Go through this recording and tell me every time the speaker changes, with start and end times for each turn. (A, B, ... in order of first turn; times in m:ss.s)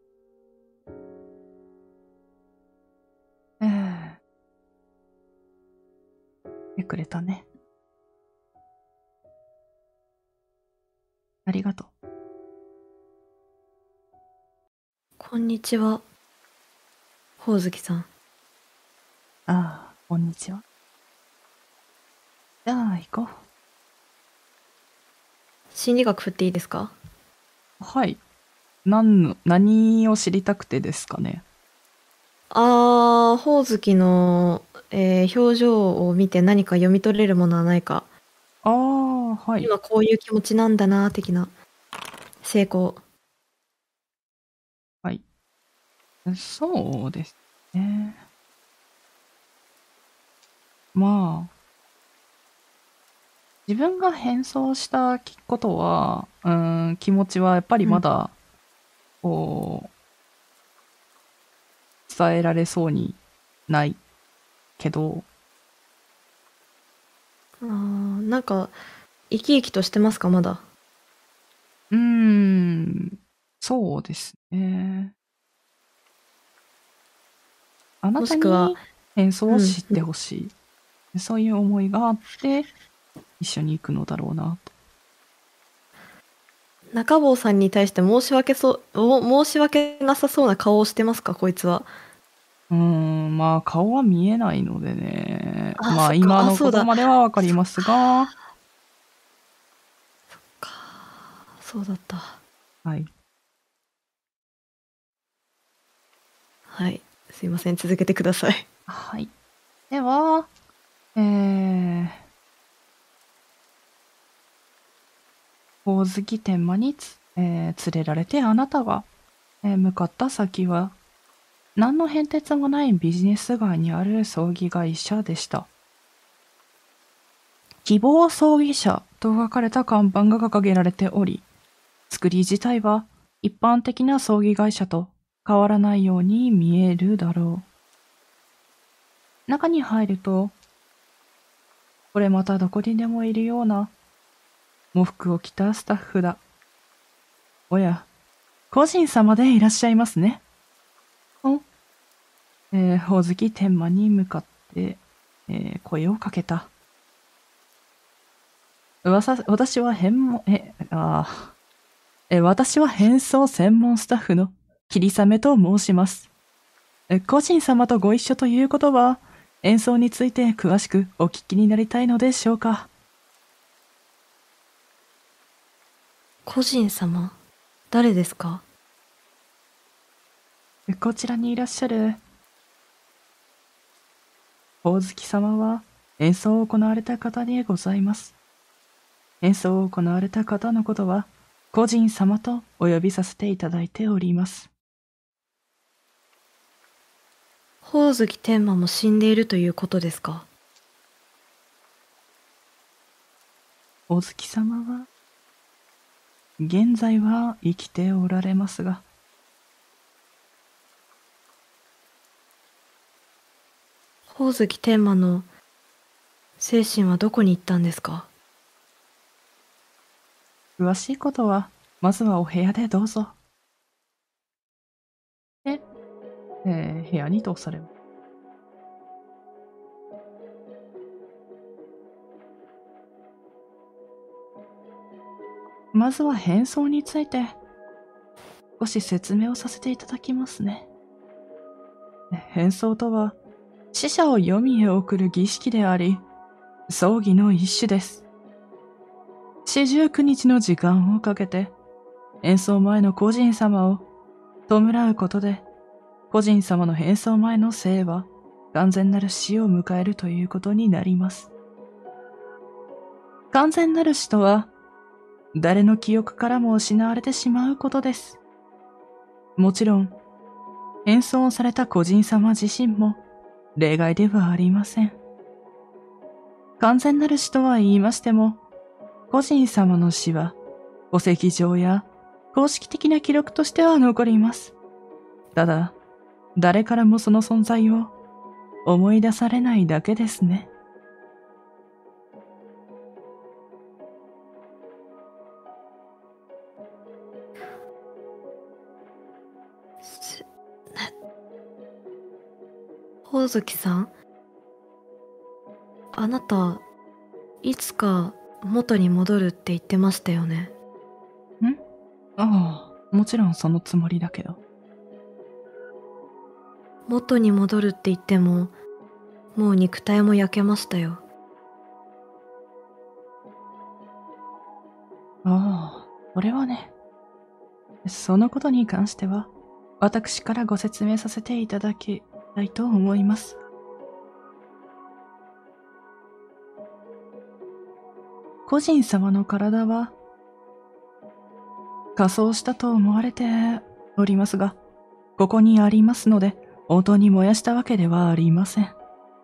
0:03.6-0:04.2 A
0:06.8-0:07.4 A
0:11.4-0:11.9 A
0:15.2-0:16.0 B
0:17.4-0:18.1 B
0:19.5-0:20.6 A
0:22.6-0:23.4 A
0:25.7-0:26.9 B
0:27.8-0:28.2 A
0:28.8-0:31.4 A
0:32.5-0:38.1 B
0:38.6-0:39.7 A
0:39.6-0:41.5 B
0:42.4-0:43.0 B
0:46.2-0:48.2 A
0:50.9-0:51.5 A
0:53.7-0:58.3 A
0:59.2-0:59.9 A
1:02.1-1:04.0 A
1:04.8-1:05.3 A
1:07.6-1:08.8 B
1:09.3-1:10.6 B
1:11.9-1:15.1 A
1:18.0-1:20.5 A
1:18.2-1:18.8 B
1:19.5-1:20.0 B
1:21.1-1:22.7 A
1:23.4-1:24.7 A
1:26.9-1:31.9 B
1:32.7-1:38.3 A
1:35.8-1:36.9 B
1:40.3-1:42.4 B
1:46.7-1:48.7 B
1:48.9-1:49.3 A
1:49.9-1:50.5 A
1:51.2-1:52.2 A
1:55.8-1:59.1 A
1:59.6-2:00.9 A
2:01.8-2:05.7 A
2:07.8-2:11.4 A
2:12.1-2:17.6 A
2:19.5-2:20.6 A
2:22.1-2:23.9 A
2:24.9-2:26.4 A
2:27.7-2:28.1 A
2:28.7-2:30.4 A
2:32.7-2:36.7 A
2:39.0-2:41.5 A
2:42.3-2:46.3 A
2:47.1-2:52.9 A
2:56.4-2:57.4 B
2:57.9-2:58.6 B
3:00.9-3:02.2 A
3:04.8-3:08.3 A
3:09.4-3:14.7 A
3:17.8-3:20.5 B
3:24.1-3:25.1 A
3:26.6-3:29.0 A
3:34.3-3:35.5 B
3:36.6-3:38.3 B
3:40.8-3:43.3 A
3:46.6-3:47.9 A
3:55.9-3:57.6 A
3:58.8-4:00.9 A
4:02.3-4:03.4 A
4:03.9-4:06.2 A
4:06.9-4:08.2 A
4:09.6-4:11.7 A
4:12.4-4:14.0 A
4:14.7-4:15.6 A
4:16.3-4:21.5 A
4:23.5-4:24.7 A
4:25.5-4:28.4 A
4:29.6-4:30.2 A
4:31.0-4:33.2 A
4:33.8-4:35.2 A
4:36.8-4:38.6 A
4:39.3-4:40.6 A
4:41.1-4:44.7 A
4:45.5-4:45.9 A
4:46.6-4:48.1 A
4:48.8-4:50.7 A
5:00.0-5:01.1 B
5:03.2-5:04.1 B
5:06.1-5:06.8 B
5:07.6-5:10.7 B
5:12.4-5:14.6 A
5:17.1-5:18.7 B
5:19.5-5:21.2 B
5:25.4-5:26.9 A
5:28.0-5:33.6 A
5:38.6-5:40.2 A
5:42.2-5:44.8 A
5:45.4-5:48.9 A